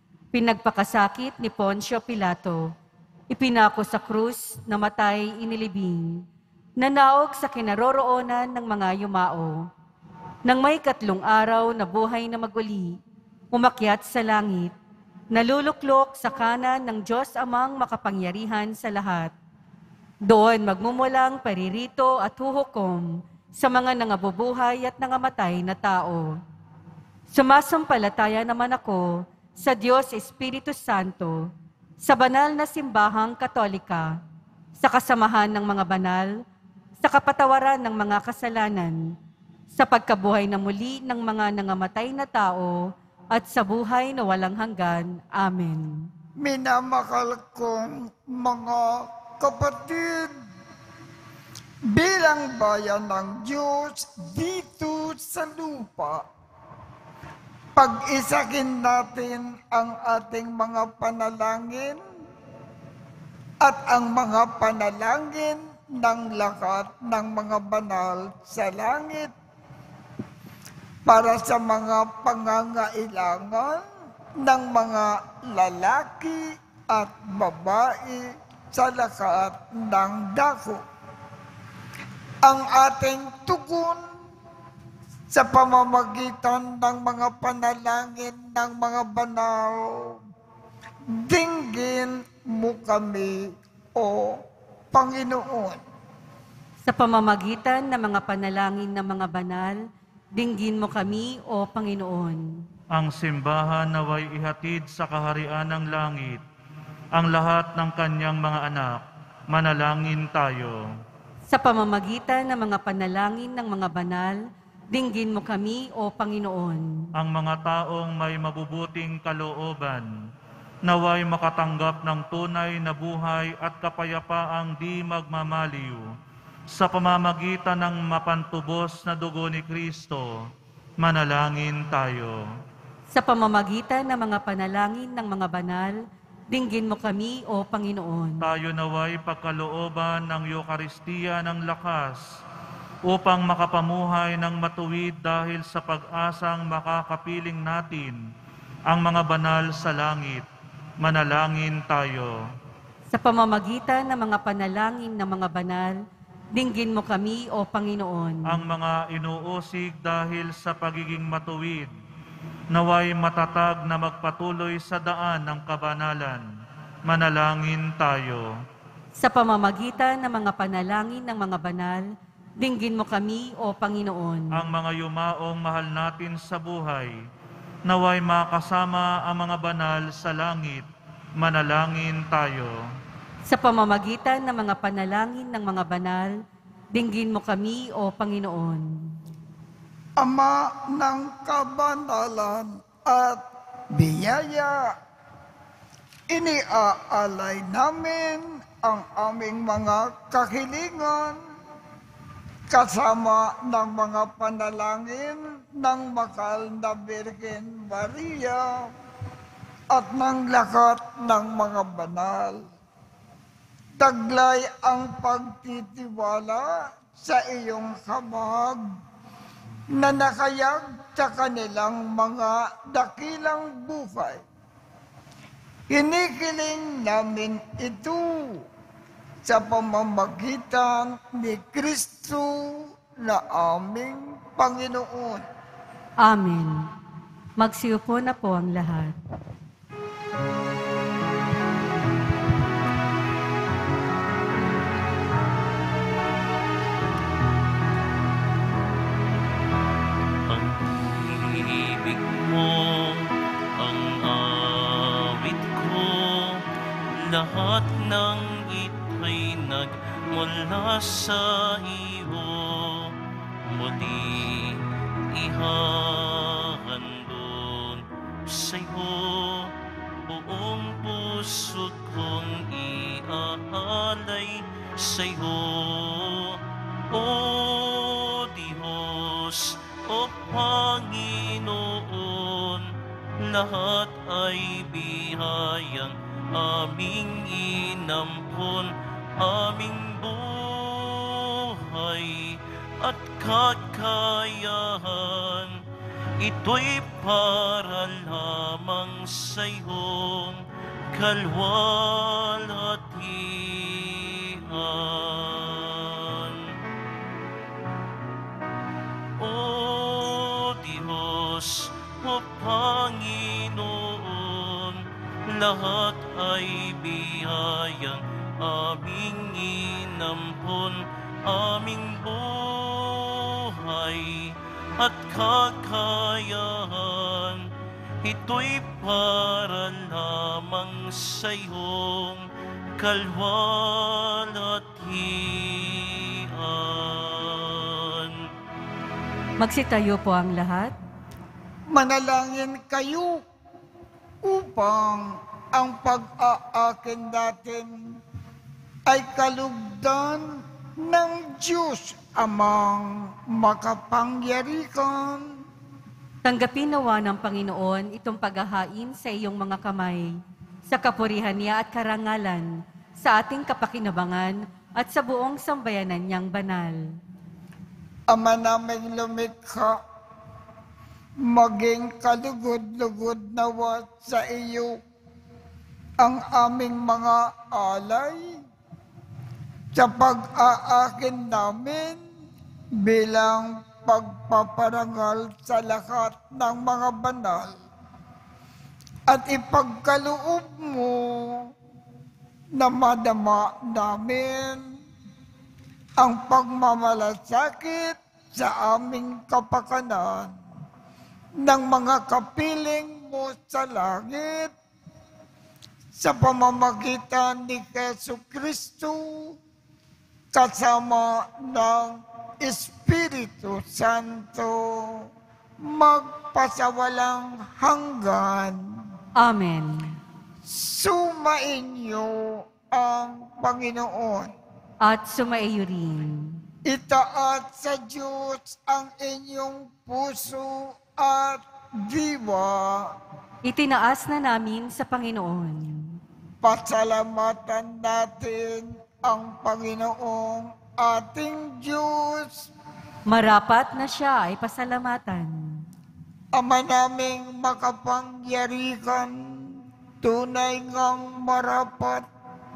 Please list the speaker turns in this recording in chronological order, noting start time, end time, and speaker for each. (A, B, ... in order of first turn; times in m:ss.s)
0:00.3-0:02.7 A
0:03.3-0:06.2 A
0:06.8-0:09.7 A
0:10.4-0:13.0 A
0:13.5-0:14.7 A
0:15.3-0:19.3 A
0:20.3-0:26.4 A
0:27.3-0:31.5 A
0:32.0-0:34.2 A
0:34.8-0:36.3 A
0:37.0-0:39.0 A
0:39.7-0:46.1 A
0:46.4-0:50.3 B
0:51.9-0:56.2 B
0:57.8-1:02.0 B
1:03.6-1:09.3 B
1:11.0-1:13.8 B
1:14.4-1:20.8 B
1:22.4-1:24.0 B
1:25.3-1:30.2 B
1:31.1-1:35.8 B
1:36.8-1:39.8 A
1:40.4-1:42.4 A
1:42.9-1:46.4 C
1:47.1-1:50.9 C
1:51.5-1:54.4 A
1:54.9-1:57.0 A
1:57.2-2:00.1 C
2:00.8-2:06.0 C
2:06.7-2:12.4 C
2:13.1-2:16.0 A
2:16.5-2:18.4 A
2:18.4-2:22.2 C
2:23.1-2:28.2 C
2:28.9-2:30.4 C
2:31.0-2:32.4 C
2:33.1-2:36.0 A
2:36.5-2:38.6 A
2:38.5-2:41.9 C
2:42.7-2:46.4 C
2:47.1-2:48.5 C
2:49.2-2:52.1 A
2:52.6-2:54.6 A
2:54.5-2:57.1 C
2:57.9-3:00.8 C
3:01.4-3:02.8 C
3:03.5-3:06.3 A
3:06.9-3:08.9 A
3:10.2-3:14.9 B
3:16.3-3:21.4 B
3:22.7-3:28.9 B
3:29.9-3:32.6 B
3:34.0-3:38.8 B
3:40.0-3:44.4 B
3:45.9-3:48.6 B
3:49.4-3:55.4 B
3:56.2-3:56.8 A
3:57.6-3:59.2 A
4:10.5-4:55.8 D
4:56.4-5:06.8 D
5:09.4-5:27.7 D
5:28.2-5:38.5 D
5:39.6-5:40.9 A
5:41.9-5:43.4 B
5:44.4-5:48.2 B
5:49.1-5:55.6 B
5:56.4-6:00.3 A
6:00.9-6:07.0 A
6:08.3-6:10.0 B
6:11.4-6:15.0 B
6:16.2-6:18.5 B
6:19.9-6:22.2 B
6:23.0-6:27.7 B
6:29.3-6:31.7 B
6:32.8-6:34.9 B
6:36.2-6:40.5 B
6:41.6-6:44.7 B
6:46.1-6:49.6 B
6:50.5-6:55.3 B
6:55.8-6:59.1 B
6:59.4-7:00.1 A
7:00.6-7:04.5 B
7:05.0-7:06.6 A
7:06.8-7:13.1 B
7:13.6-7:16.1 A
7:16.6-7:22.7 B
7:23.3-7:25.6 A
7:26.5-7:32.2 B